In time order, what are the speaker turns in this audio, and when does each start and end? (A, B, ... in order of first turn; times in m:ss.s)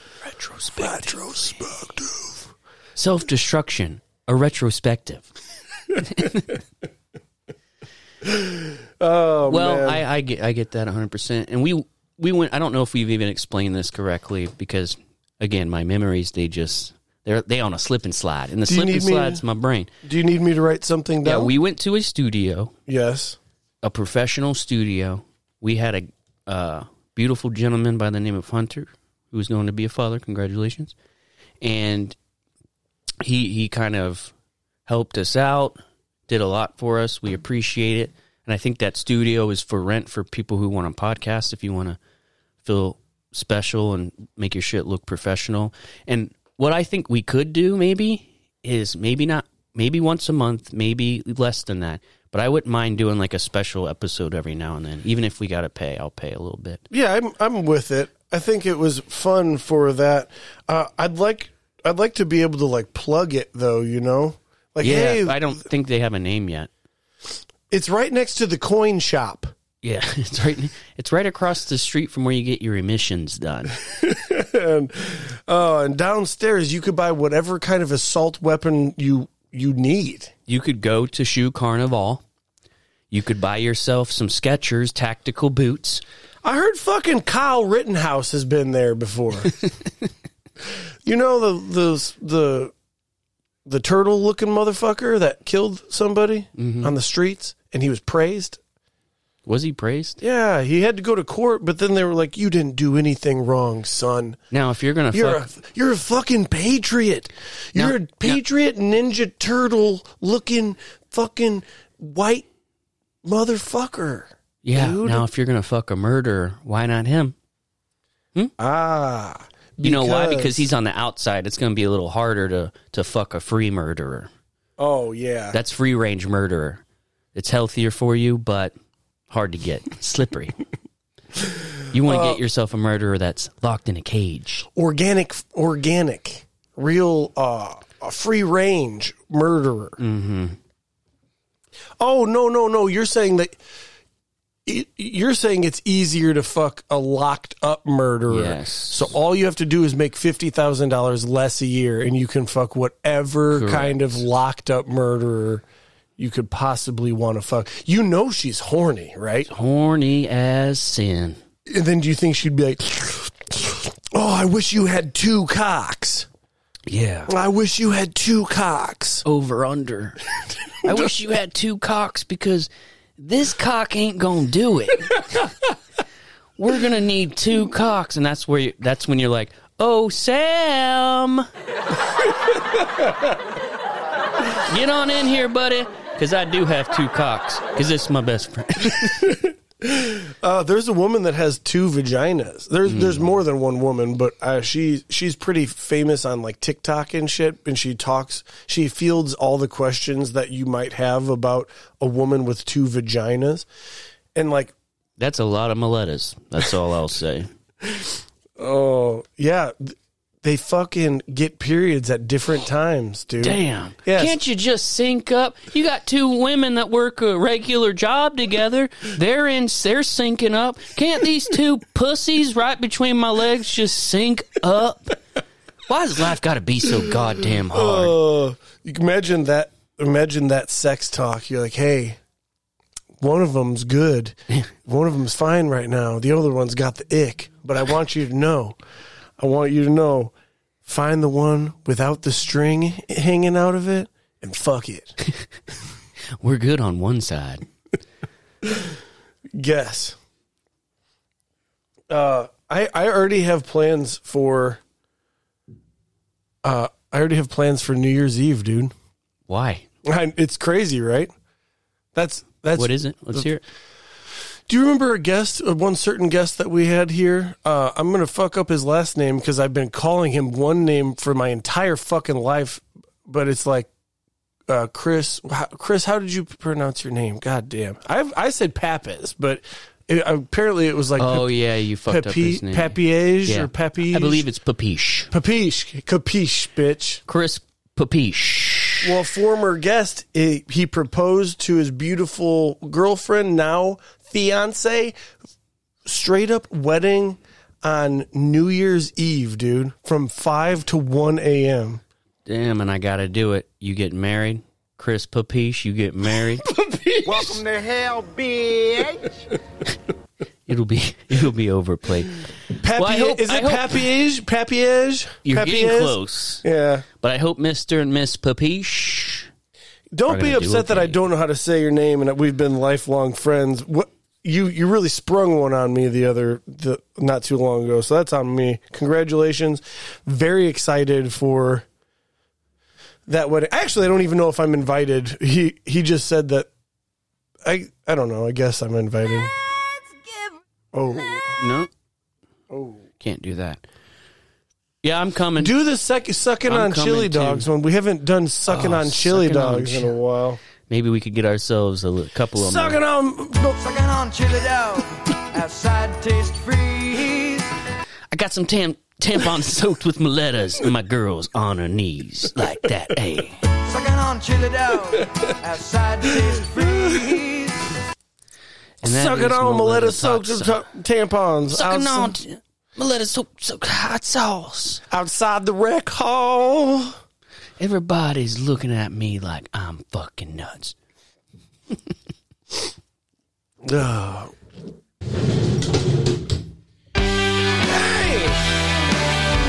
0:00.2-0:01.6 A
0:00.8-0:02.4 B
0:03.0-0:05.3 A
0:06.0-0:06.6 A
0:08.2-0:10.0 B
0:09.5-0:19.9 A
0:18.6-0:19.4 B
0:20.0-0:21.5 B
0:21.2-0:22.7 A
0:22.9-0:23.4 B
0:23.8-0:30.9 A
0:31.6-0:32.2 A
0:33.2-0:34.3 A
0:34.9-0:42.0 A
0:42.6-0:56.8 A
0:56.9-1:05.6 B
1:04.8-1:06.7 A
1:07.7-1:09.5 B
1:09.8-1:13.7 A
1:13.9-1:20.3 B
1:20.5-1:22.2 A
1:23.1-1:26.0 A
1:26.4-1:29.5 B
1:31.0-1:32.7 B
1:33.6-1:38.6 B
1:36.6-1:36.9 A
1:39.4-1:40.2 A
1:40.2-1:44.4 B
1:44.5-1:45.5 A
1:45.1-1:52.4 B
1:47.8-1:48.4 A
1:53.2-1:55.2 B
1:54.6-1:57.3 A
1:58.6-2:00.7 B
1:59.8-2:04.3 A
2:04.8-2:05.6 B
2:05.5-2:06.8 A
2:07.3-2:08.7 A
2:09.3-2:10.6 A
2:11.9-2:14.7 A
2:12.0-2:12.4 B
2:14.7-2:20.0 B
2:20.0-2:20.6 A
2:22.0-2:23.6 B
2:24.6-2:35.6 B
2:28.3-2:29.1 A
2:33.5-2:34.2 A
2:36.2-2:39.5 B
2:39.5-2:41.4 A
2:41.6-2:46.3 B
2:46.9-2:47.3 A
2:47.3-2:49.2 B
2:49.2-2:50.2 A
2:50.8-2:55.5 A
2:56.6-3:01.5 A
3:02.5-3:03.2 B
3:04.6-3:09.3 A
3:08.9-3:23.7 B
3:12.9-3:13.2 A
3:24.3-3:24.7 B
3:25.2-3:27.5 A
3:27.8-3:34.4 B
3:33.4-3:45.2 A
3:45.9-3:48.2 A
3:47.6-3:52.2 B
3:53.2-3:58.8 B
3:59.4-4:00.3 B
4:00.8-4:05.2 B
4:06.4-4:07.6 A
4:08.6-4:08.9 B
4:09.5-4:10.2 B
4:12.1-4:14.8 B
4:16.6-4:18.9 B
4:19.5-4:19.8 A
4:20.0-4:21.3 B
4:22.1-4:23.5 B
4:22.7-4:23.6 A
4:24.7-4:33.9 B
4:34.7-4:41.5 B
4:41.2-4:45.3 A
4:42.1-4:44.4 B
4:45.3-4:47.2 B
4:47.3-4:49.1 A
4:49.0-4:55.2 B
4:56.0-5:02.0 B
5:02.4-5:06.7 A
5:06.6-5:07.6 B
5:07.2-5:09.4 C
5:10.7-5:14.0 A
5:12.8-5:17.0 B
5:15.4-5:16.6 A
5:17.2-5:19.5 A
5:20.1-5:31.8 B
5:20.3-5:21.2 A
5:33.3-5:36.7 B
5:37.6-5:39.5 B
5:40.9-5:41.6 B
5:41.6-5:41.9 A
5:42.7-5:43.0 B
5:43.2-5:43.8 A
5:45.0-5:45.7 A
5:45.6-5:50.6 B
5:46.7-5:47.6 A
5:48.7-5:50.1 A
5:50.9-5:53.0 A
5:52.6-5:53.7 B
5:53.6-5:57.7 C
5:58.3-6:03.6 A
6:03.7-6:07.9 C
6:06.9-6:07.3 B
6:09.0-6:10.8 A
6:09.0-6:12.3 B
6:11.7-6:15.0 A
6:15.1-6:17.2 B
6:17.8-6:20.9 A
6:23.8-6:24.5 B
6:27.8-6:28.6 B